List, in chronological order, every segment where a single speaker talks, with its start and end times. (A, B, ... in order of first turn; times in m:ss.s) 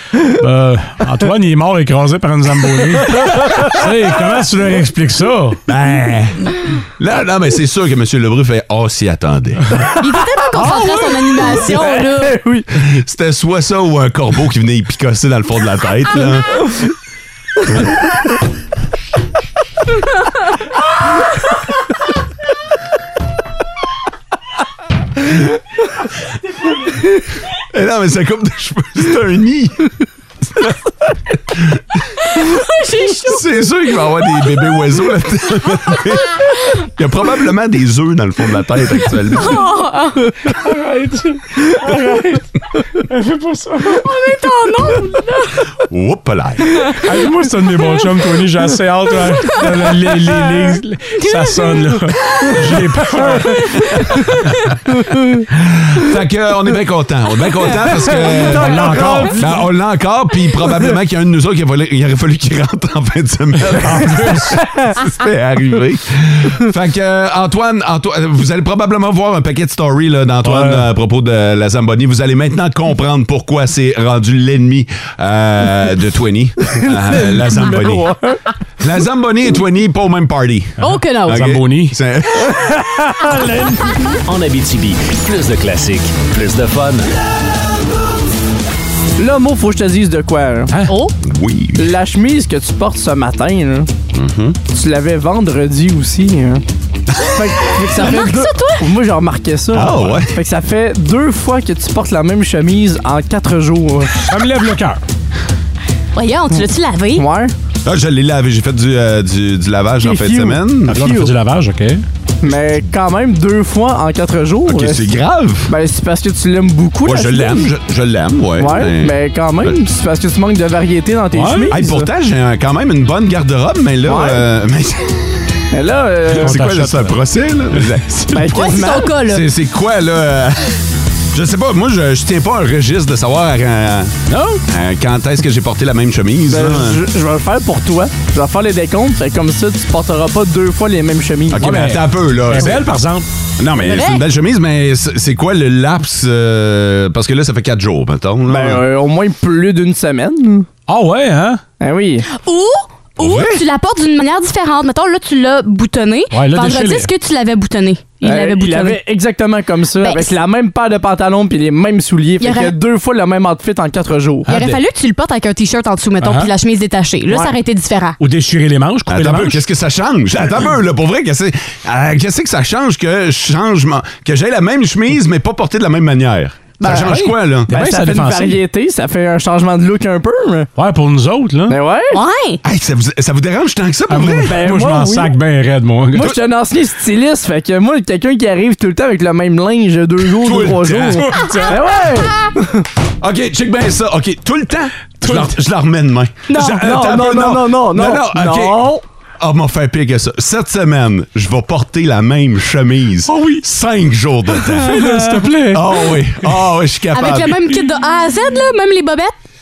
0:00.3-0:05.6 A
0:05.7-0:09.8 B
0:10.0-0:12.4 C
0:11.2-0:12.6 D
0:12.8-0:16.6 B
0:27.7-0:30.0 B
0:31.3-0:32.0 B
0:32.3-0:33.4 C
0:33.2-0:39.6 B
0:39.4-0:40.2 C
0:40.4-0:42.4 A
0:43.1-0:44.0 A
0:44.0-0:45.6 C
0:45.9-0:46.8 B
0:47.0-0:53.7 A
0:51.2-0:51.8 C
0:54.0-0:54.6 C
0:55.9-1:18.2 B
0:58.1-0:59.5 D
0:58.5-0:59.4 A
1:03.7-1:04.6 A
1:10.4-1:10.9 A
1:17.8-1:18.2 D
1:18.8-1:22.8 B
1:20.8-1:22.0 A
1:20.8-1:21.4 C
1:24.3-1:27.1 E
1:29.2-1:30.7 D
1:30.9-1:31.1 C
1:31.2-1:32.0 B
1:31.8-1:33.9 D
1:34.1-1:34.6 B
1:34.7-1:36.6 D
1:37.4-1:44.3 D
1:38.0-1:38.8 C
1:39.7-1:40.3 B
1:44.2-1:45.0 A
1:46.2-1:47.3 C
1:47.2-1:47.5 D
1:47.8-1:51.0 B
1:50.0-1:51.3 D
1:50.9-1:52.0 A
1:52.4-1:55.2 D
1:54.7-1:55.7 B
1:55.7-1:57.7 D
1:57.0-1:59.8 B
1:58.6-2:02.1 D
2:01.3-2:01.8 A
2:01.7-2:05.2 B
2:04.0-2:04.4 D
2:05.7-2:06.5 D
2:06.3-2:10.8 B
2:06.4-2:07.2 A
2:08.3-2:09.1 D
2:08.5-2:09.5 C
2:11.3-2:14.2 B
2:14.3-2:14.6 A
2:14.7-2:17.0 B
2:16.4-2:21.9 D
2:21.5-2:23.0 B
2:21.6-2:23.3 A
2:23.6-2:28.8 B
2:23.8-2:24.2 C
2:28.5-2:30.7 D
2:30.9-2:31.6 A
2:31.8-2:32.3 D
2:32.3-2:39.0 C
2:33.2-2:33.6 B
2:36.3-2:37.1 A
2:38.2-2:44.5 D
2:40.0-2:40.3 C
2:42.4-2:42.7 C
2:44.5-2:44.8 A
2:44.5-2:48.2 C
2:46.2-2:46.5 A
2:48.2-2:49.6 A
2:49.1-2:57.7 B
2:56.8-2:58.6 A
2:57.7-3:00.7 D
3:00.8-3:01.8 A
3:01.7-3:02.2 D
3:02.1-3:02.6 C
3:02.6-3:04.7 B
3:04.1-3:06.3 A
3:04.5-3:05.3 D
3:06.2-3:12.8 D
3:10.3-3:11.3 B
3:11.2-3:11.8 A
3:13.2-3:18.9 B
3:15.2-3:15.5 A
3:16.7-3:19.0 D
3:19.4-3:27.6 B
3:23.3-3:23.6 A
3:24.7-3:25.8 A
3:27.1-3:29.3 C